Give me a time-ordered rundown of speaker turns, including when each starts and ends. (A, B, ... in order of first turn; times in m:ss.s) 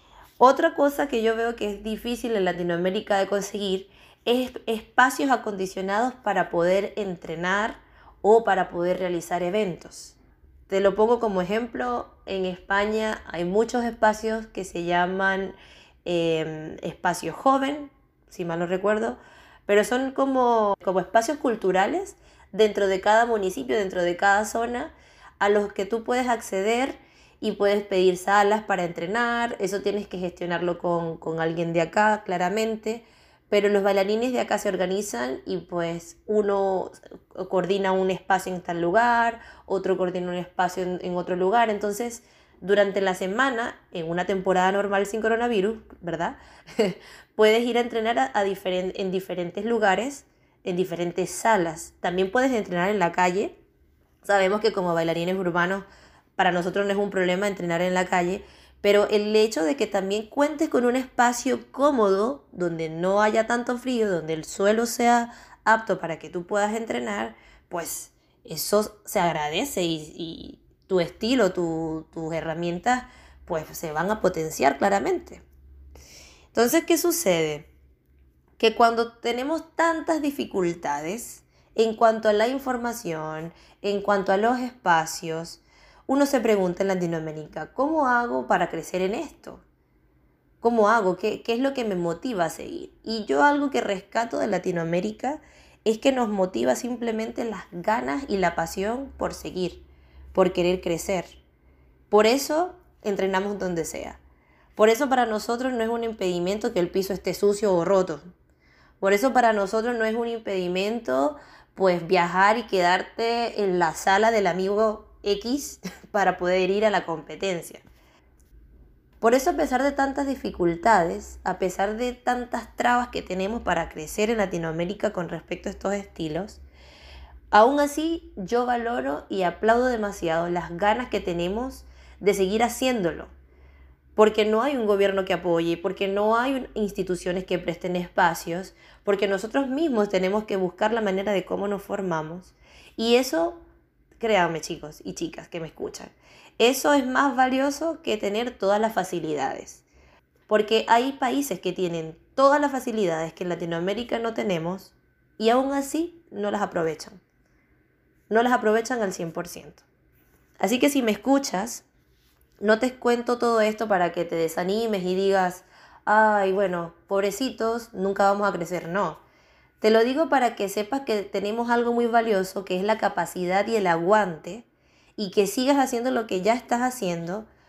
0:00.4-0:10.2 A
0:10.7-0:53.5 A
0:54.2-0:55.8 A
0:56.4-1:15.4 A
1:16.5-1:17.7 A
1:18.6-1:29.6 A
1:30.6-1:41.3 A
1:42.1-1:44.2 A
1:44.8-1:48.3 A
1:49.0-1:57.8 A
1:59.2-2:06.6 A
2:07.5-2:13.3 A
2:14.2-2:23.6 A
2:24.2-2:29.8 A
2:30.5-2:37.2 A
2:38.3-2:39.8 A
2:40.6-2:41.8 A
2:42.6-2:49.2 A
2:49.8-2:54.6 A
2:55.2-2:57.5 A